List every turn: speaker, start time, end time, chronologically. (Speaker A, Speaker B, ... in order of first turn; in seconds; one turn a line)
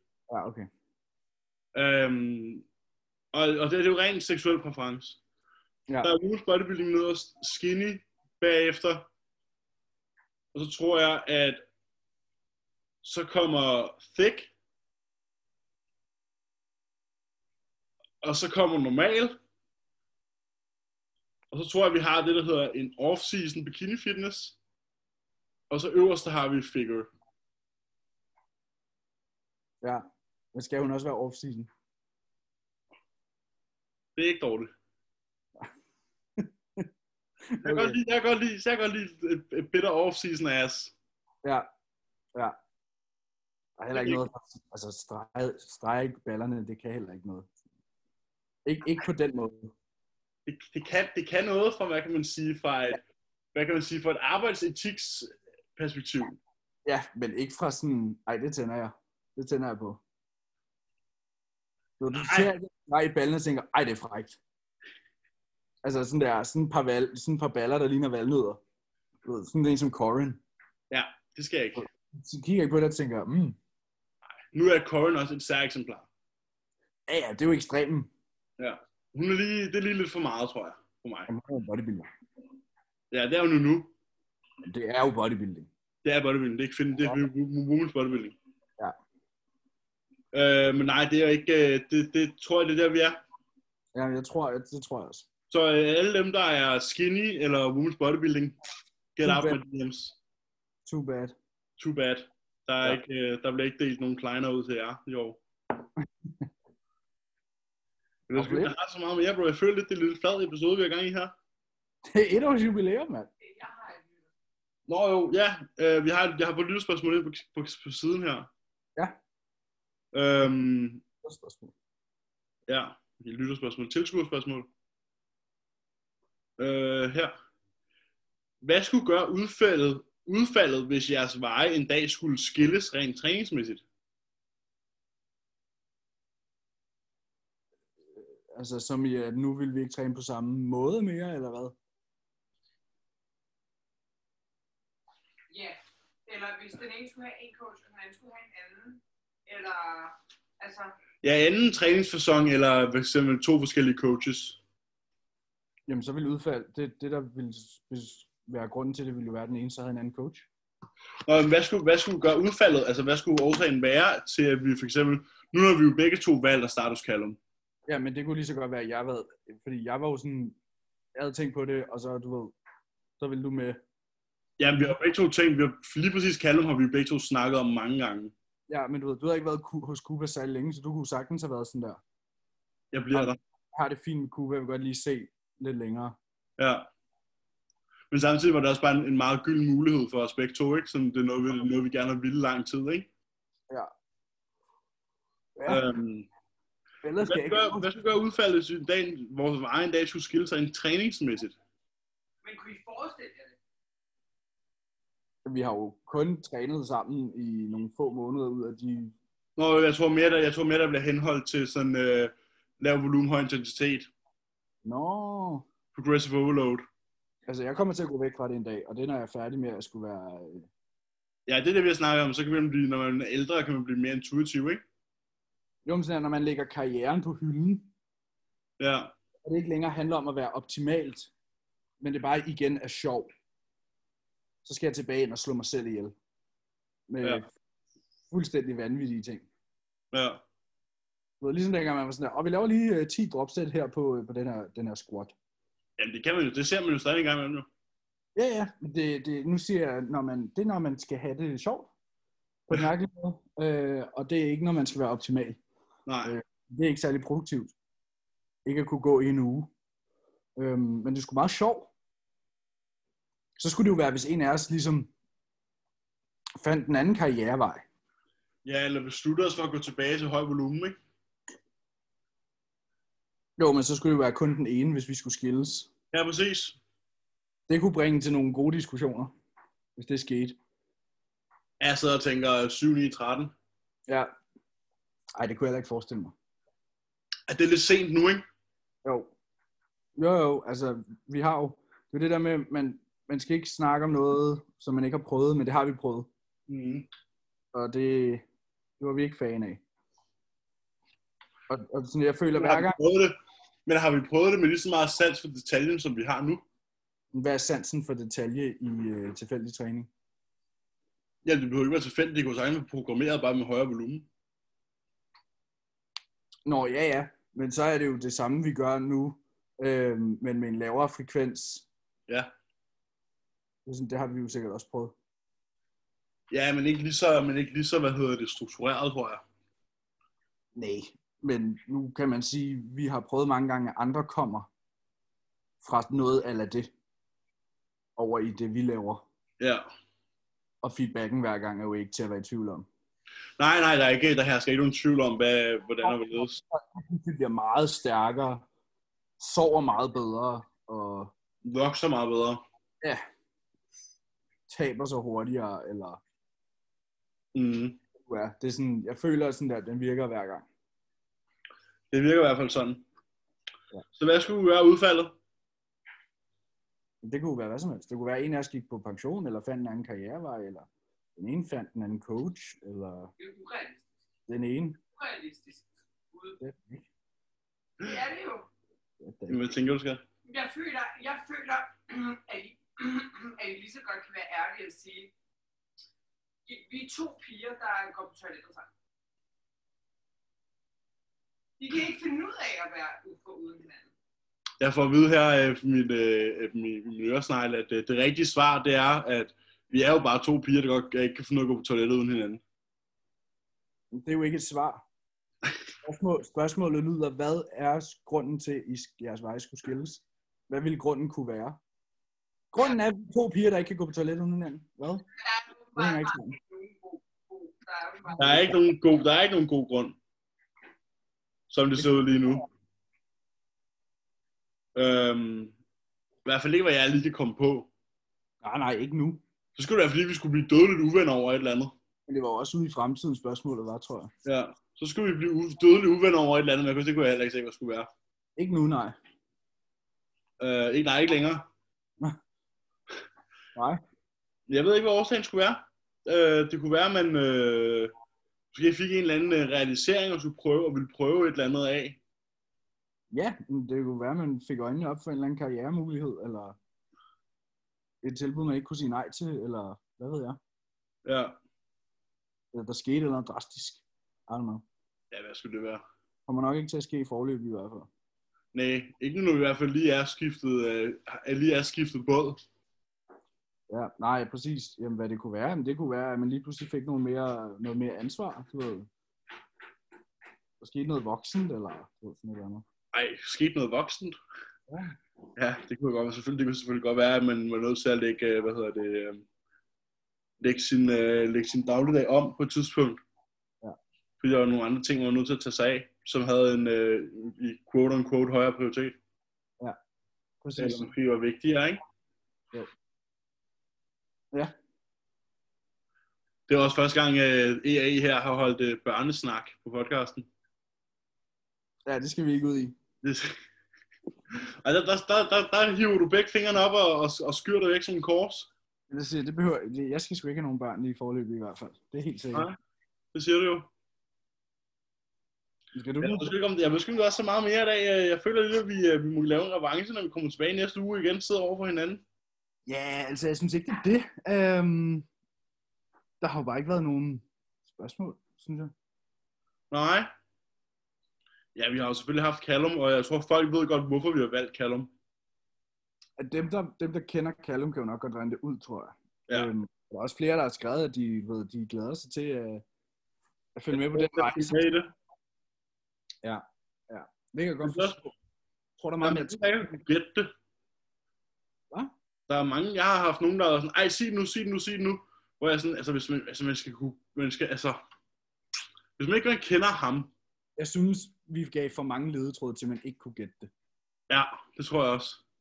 Speaker A: 0.3-0.7
Speaker B: 1.8-2.7
Speaker B: 3.3-5.2
Speaker B: 6.0-9.1
Speaker B: 10.5-11.6
Speaker B: 13.0-14.5
Speaker B: 18.2-19.4
Speaker B: 21.5-24.6
Speaker B: 25.7-27.1
Speaker A: 29.8-31.7
Speaker B: 34.2-34.7
Speaker A: 36.4-36.9
Speaker A: 37.5-38.0
Speaker B: 37.6-40.9
Speaker A: 43.8-47.5
Speaker B: 43.9-44.2
Speaker A: 48.7-49.7
Speaker B: 50.5-53.0
Speaker B: 53.5-56.4
Speaker A: 56.9-60.0
Speaker A: 62.0-64.4
Speaker B: 62.1-62.5
Speaker A: 65.8-68.6
Speaker A: 69.2-70.4
Speaker B: 70.9-71.8
Speaker A: 71.8-73.6
Speaker B: 74.5-76.1
Speaker A: 77.1-78.1
Speaker B: 78.6-81.3
Speaker A: 81.3-82.1
Speaker B: 83.1-83.9
Speaker A: 84.7-85.7
Speaker B: 86.0-88.4
Speaker B: 90.3-93.2
Speaker A: 93.9-95.3
Speaker B: 95.5-98.6
Speaker B: 99.2-100.2
Speaker A: 99.2-99.6
Speaker A: 100.9-101.3
Speaker B: 101.8-105.4
Speaker A: 106.0-106.5
Speaker B: 108.3-111.3
Speaker A: 108.3-108.7
Speaker A: 112.1-113.3
Speaker C: 113.4-114.3
Speaker B: 114.9-118.5
Speaker B: 120.1-121.0
Speaker A: 121.2-121.7
Speaker B: 122.7-124.7
Speaker B: 126.6-127.3
Speaker B: 128.6-133.8
Speaker A: 138.2-141.8
Speaker C: 145.5-150.9
Speaker B: 151.2-154.6
Speaker A: 155.9-160.5
Speaker B: 161.3-167.4
Speaker A: 167.9-170.6
Speaker A: 171.2-172.6
Speaker A: 173.2-173.8
Speaker B: 174.6-178.3
Speaker A: 178.7-182.0
Speaker B: 182.9-183.4
Speaker A: 183.1-186.2
Speaker B: 186.6-186.9
Speaker B: 188.1-193.1
Speaker A: 195.6-195.8
Speaker B: 195.7-196.3
Speaker A: 197.0-197.9
Speaker B: 197.2-201.5
Speaker C: 202.4-203.6
Speaker A: 205.4-209.1
Speaker B: 209.6-214.1
Speaker A: 214.8-215.7
Speaker B: 215.9-216.8
Speaker A: 217.5-220.7
Speaker B: 221.5-224.8
Speaker A: 225.8-227.9
Speaker B: 228.8-229.1
Speaker A: 229.4-231.3
Speaker A: 232.0-233.3
Speaker A: 234.7-236.2
Speaker A: 237.1-237.5
Speaker A: 238.3-239.5
Speaker B: 240.1-240.4
Speaker A: 241.4-245.3
Speaker B: 246.0-247.7
Speaker A: 248.4-251.9
Speaker A: 252.7-255.6
Speaker B: 256.1-256.3
Speaker A: 256.2-257.7
Speaker A: 258.6-259.7
Speaker A: 260.6-261.9
Speaker A: 263.6-265.1
Speaker A: 266.6-267.9
Speaker B: 268.6-271.0
Speaker A: 273.6-275.9
Speaker B: 276.1-276.8
Speaker A: 277.7-279.3
Speaker A: 280.0-280.6
Speaker B: 281.8-283.5
Speaker A: 285.4-286.3
Speaker B: 287.5-288.4
Speaker A: 289.1-289.3
Speaker A: 290.2-296.3
Speaker B: 296.7-297.1
Speaker A: 297.7-298.4
Speaker A: 299.0-299.8
Speaker A: 301.7-303.0
Speaker B: 302.6-303.4
Speaker B: 303.9-306.6
Speaker A: 307.3-310.1
Speaker B: 311.4-314.3
Speaker A: 316.7-321.9
Speaker A: 323.9-325.2
Speaker B: 326.5-329.4
Speaker A: 330.8-334.7
Speaker A: 335.8-336.9
Speaker A: 338.2-339.2
Speaker B: 339.6-339.9
Speaker A: 340.8-342.9
Speaker B: 343.6-346.6
Speaker A: 346.0-348.7
Speaker A: 349.4-351.3
Speaker B: 351.6-352.6
Speaker A: 354.7-356.2
Speaker B: 357.5-358.0
Speaker A: 358.2-360.7
Speaker B: 362.1-363.1
Speaker B: 364.2-365.4
Speaker A: 367.2-373.3
Speaker C: 373.4-374.0
Speaker A: 374.5-375.0
Speaker C: 375.2-376.6
Speaker A: 376.6-377.0
Speaker C: 378.0-378.7
Speaker A: 379.2-379.6
Speaker B: 379.5-380.2
Speaker C: 380.5-385.3
Speaker C: 386.7-388.9
Speaker C: 391.8-394.1
Speaker B: 394.8-402.6
Speaker A: 404.1-405.1
Speaker A: 406.0-411.8
Speaker A: 412.7-415.3
Speaker C: 415.4-418.5
Speaker A: 416.0-416.6
Speaker A: 418.4-418.7
Speaker B: 418.4-420.2
Speaker B: 421.7-422.6
Speaker B: 424.9-425.7
Speaker B: 426.4-427.9
Speaker A: 428.6-429.4
Speaker B: 429.8-431.9
Speaker A: 432.3-434.3
Speaker B: 434.4-438.1
Speaker A: 438.6-439.1
Speaker B: 440.6-441.7
Speaker A: 443.8-444.0
Speaker B: 444.7-448.1
Speaker B: 448.7-452.2
Speaker A: 453.3-456.8
Speaker A: 458.2-460.6
Speaker B: 461.2-461.6
Speaker A: 462.7-464.9
Speaker B: 465.3-466.0
Speaker A: 466.5-468.1
Speaker B: 468.7-472.6
Speaker A: 473.9-479.1
Speaker A: 480.8-482.9
Speaker B: 483.1-484.4
Speaker A: 484.9-485.2
Speaker B: 485.6-489.4
Speaker B: 490.6-493.2
Speaker B: 494.4-499.2
Speaker A: 500.6-501.1
Speaker B: 500.8-502.0
Speaker B: 506.7-510.5
Speaker A: 512.1-513.0
Speaker B: 513.2-513.6
Speaker B: 514.8-518.7
Speaker A: 519.1-522.7
Speaker B: 523.3-523.9
Speaker A: 526.0-526.5
Speaker B: 526.2-532.2
Speaker A: 532.9-535.3
Speaker A: 536.4-538.9
Speaker B: 539.9-540.3
Speaker B: 541.8-545.1
Speaker A: 546.4-552.8
Speaker A: 553.8-554.8
Speaker B: 553.9-555.1
Speaker A: 556.4-558.4
Speaker B: 557.8-558.2
Speaker A: 559.0-559.6
Speaker B: 559.2-560.5
Speaker B: 562.5-568.0
Speaker B: 569.2-570.3
Speaker A: 570.8-573.7
Speaker B: 574.3-575.4